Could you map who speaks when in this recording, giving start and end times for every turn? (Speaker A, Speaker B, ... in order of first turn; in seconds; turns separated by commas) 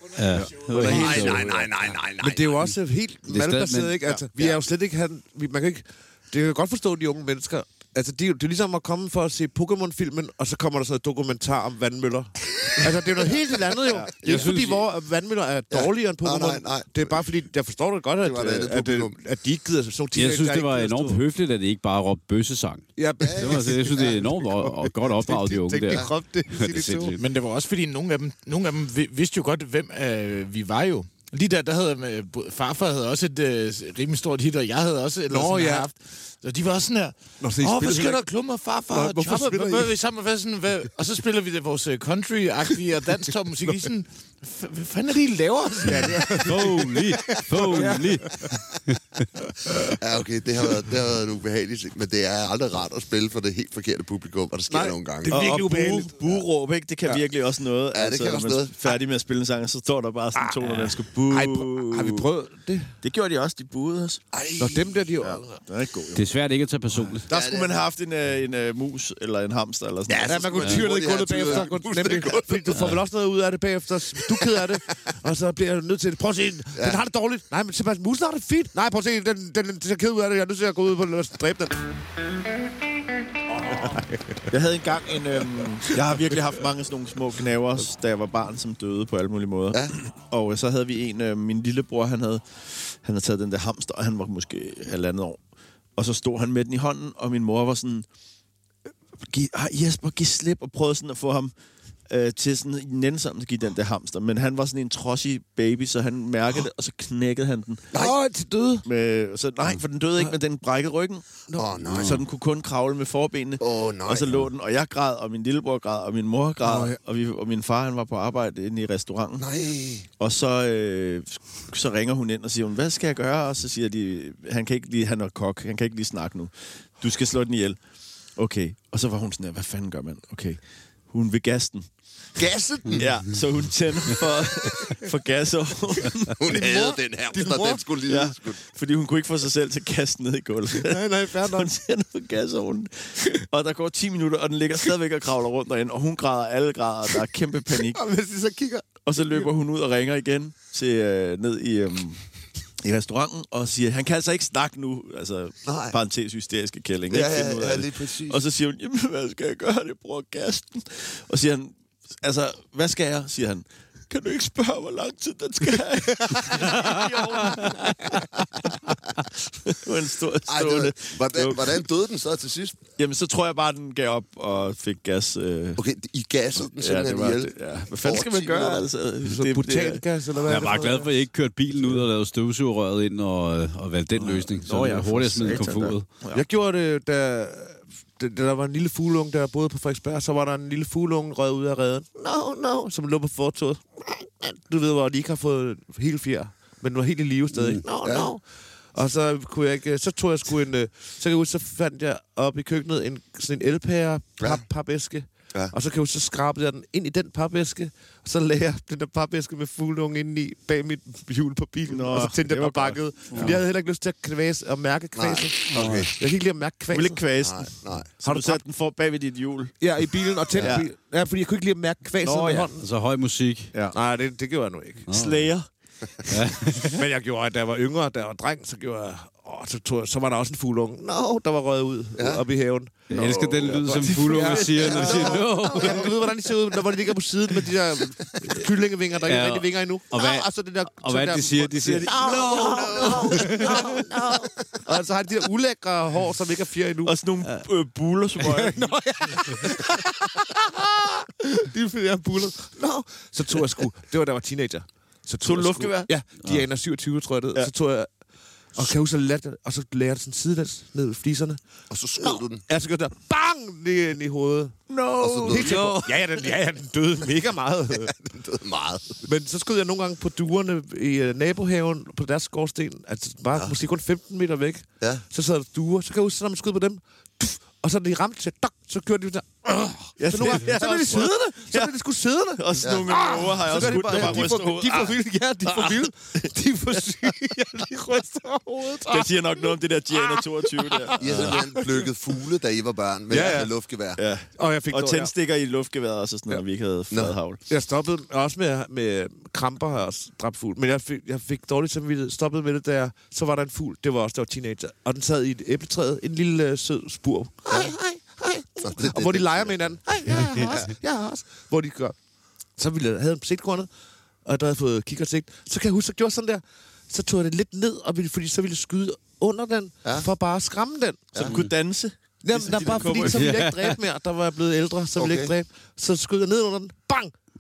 Speaker A: 0.1-1.6, Speaker B: 0.3-1.2, Speaker C: 0.7-1.7, Speaker D: 0.8-2.6, Speaker C: 2.2-21.2, Speaker A: 3.3-4.1, Speaker D: 14.2-14.6, Speaker A: 14.2-14.8, Speaker D: 15.7-17.3, Speaker D: 18.2-19.2, Speaker A: 20.1-27.2, Speaker C: 23.0-27.2, Speaker D: 23.2-23.7, Speaker E: 27.2-46.8, Speaker C: 35.3-35.9, Speaker C: 37.4-38.2, Speaker C: 38.9-39.9, Speaker C: 45.8-48.5, Speaker A: 46.3-49.2, Speaker D: 49.8-55.5, Speaker C: 54.7-56.3, Speaker B: 55.3-62.3, Speaker D: 57.9-59.0, Speaker C: 60.4-63.0, Speaker B: 63.0-64.2, Speaker D: 64.3-65.0, Speaker C: 64.6-65.6, Speaker B: 65.2-66.3, Speaker A: 66.1-67.3, Speaker D: 67.3-67.7, Speaker B: 67.3-70.8, Speaker D: 70.1-73.0, Speaker C: 70.2-81.8, Speaker D: 74.2-74.7, Speaker D: 76.8-77.0, Speaker C: 83.7-84.2, Speaker B: 84.5-95.4, Speaker B: 96.0-98.1, Speaker B: 99.2-101.5, Speaker B: 102.1-107.9, Speaker C: 107.9-108.8, Speaker B: 108.8-111.3, Speaker C: 111.5-111.8, Speaker D: 111.6-112.3, Speaker B: 111.8-119.5, Speaker D: 113.6-114.5, Speaker C: 116.6-117.0, Speaker D: 119.4-120.1, Speaker B: 120.2-127.8, Speaker B: 128.4-131.9, Speaker D: 132.4-133.1, Speaker B: 132.9-136.4, Speaker D: 136.4-138.6, Speaker C: 136.4-137.8, Speaker B: 138.1-148.0, Speaker C: 140.8-141.7, Speaker C: 147.9-149.5, Speaker B: 149.1-152.2, Speaker B: 152.8-171.8, Speaker D: 155.7-156.0, Speaker D: 157.1-158.4, Speaker D: 170.5-172.8, Speaker B: 173.0-175.8, Speaker D: 175.8-178.9, Speaker B: 176.6-180.0, Speaker C: 179.2-181.1, Speaker A: 180.4-186.1, Speaker B: 184.2-186.4, Speaker C: 186.3-198.4, Speaker A: 197.6-197.8, Speaker D: 198.0-198.3, Speaker C: 198.9-217.2, Speaker B: 211.9-213.6, Speaker A: 213.3-213.6, Speaker D: 215.2-216.1, Speaker A: 215.7-216.1, Speaker B: 216.9-219.8, Speaker D: 217.4-218.1, Speaker C: 218.2-218.6, Speaker C: 219.8-222.8, Speaker B: 220.6-220.9, Speaker B: 222.2-222.7, Speaker A: 222.8-223.7, Speaker C: 223.9-225.1, Speaker A: 225.1-225.5, Speaker B: 225.1-225.7, Speaker A: 226.3-227.0, Speaker C: 226.7-247.1, Speaker D: 232.2-232.4, Speaker A: 233.1-236.2, Speaker B: 233.1-235.9, Speaker D: 234.9-235.7, Speaker A: 239.2-242.7, Speaker B: 241.8-243.7, Speaker D: 242.1-244.6, Speaker B: 247.1-248.9, Speaker C: 248.4-258.1, Speaker B: 255.4-256.1, Speaker C: 258.7-261.6, Speaker D: 261.9-262.6, Speaker C: 262.2-264.8, Speaker B: 264.9-266.2, Speaker D: 265.2-266.0, Speaker C: 265.4-268.1, Speaker D: 267.9-269.2, Speaker C: 269.2-292.1, Speaker B: 280.2-281.9, Speaker B: 282.6-285.1, Speaker D: 282.8-283.2, Speaker B: 285.8-286.5, Speaker B: 289.1-291.6, Speaker D: 291.2-294.2, Speaker C: 293.3-293.7, Speaker B: 293.3-293.6, Speaker B: 294.2-297.6, Speaker C: 294.6-295.3, Speaker D: 297.1-297.4, Speaker C: 297.7-312.2, Speaker D: 307.7-310.9, Speaker C: 312.8-313.9, Speaker C: 314.4-321.3, Speaker D: 321.3-321.6, Speaker B: 321.4-323.6, Speaker C: 322.4-327.3, Speaker A: 323.2-324.0, Speaker D: 325.2-325.5